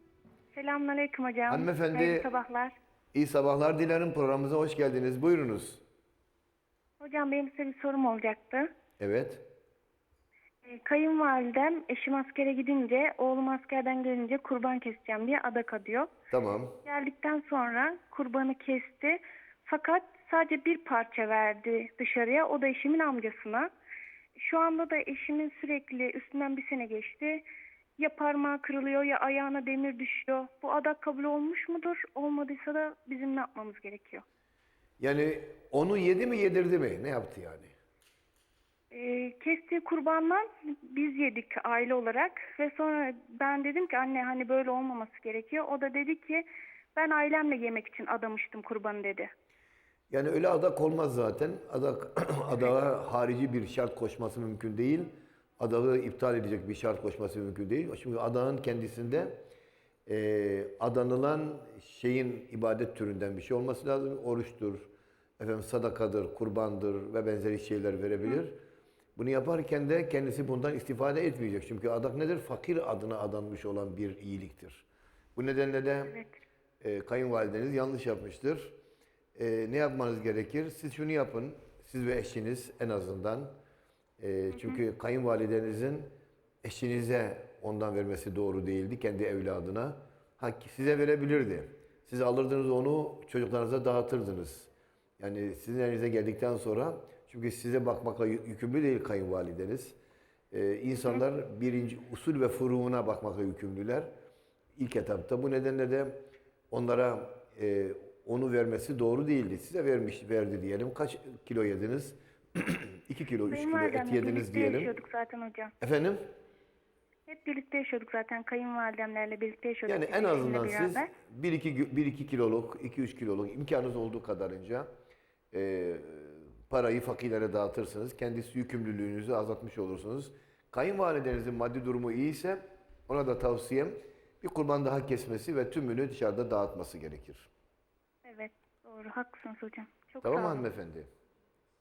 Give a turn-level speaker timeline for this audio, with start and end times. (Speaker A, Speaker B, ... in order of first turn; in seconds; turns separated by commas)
Speaker A: 0.5-2.8, Speaker B: 1.5-2.2, Speaker B: 3.1-5.8, Speaker A: 7.0-8.7, Speaker B: 9.0-9.4, Speaker A: 10.6-16.1, Speaker B: 16.3-16.8, Speaker A: 16.8-23.7, Speaker A: 24.4-27.4, Speaker A: 28.0-34.2, Speaker B: 35.0-37.7, Speaker A: 38.9-49.3, Speaker B: 50.1-59.4, Speaker B: 60.1-68.5, Speaker B: 69.2-74.8, Speaker B: 75.3-76.1, Speaker A: 76.1-76.4, Speaker B: 76.8-78.8, Speaker B: 79.3-83.5, Speaker B: 84.2-86.1, Speaker A: 84.5-84.8, Speaker B: 86.6-100.0, Speaker B: 100.5-104.1, Speaker B: 104.8-114.9, Speaker A: 113.5-115.7, Speaker B: 115.8-116.2, Speaker A: 117.3-121.1, Speaker B: 119.8-124.9, Speaker B: 125.5-137.5, Speaker A: 138.2-140.7, Speaker B: 140.2-141.1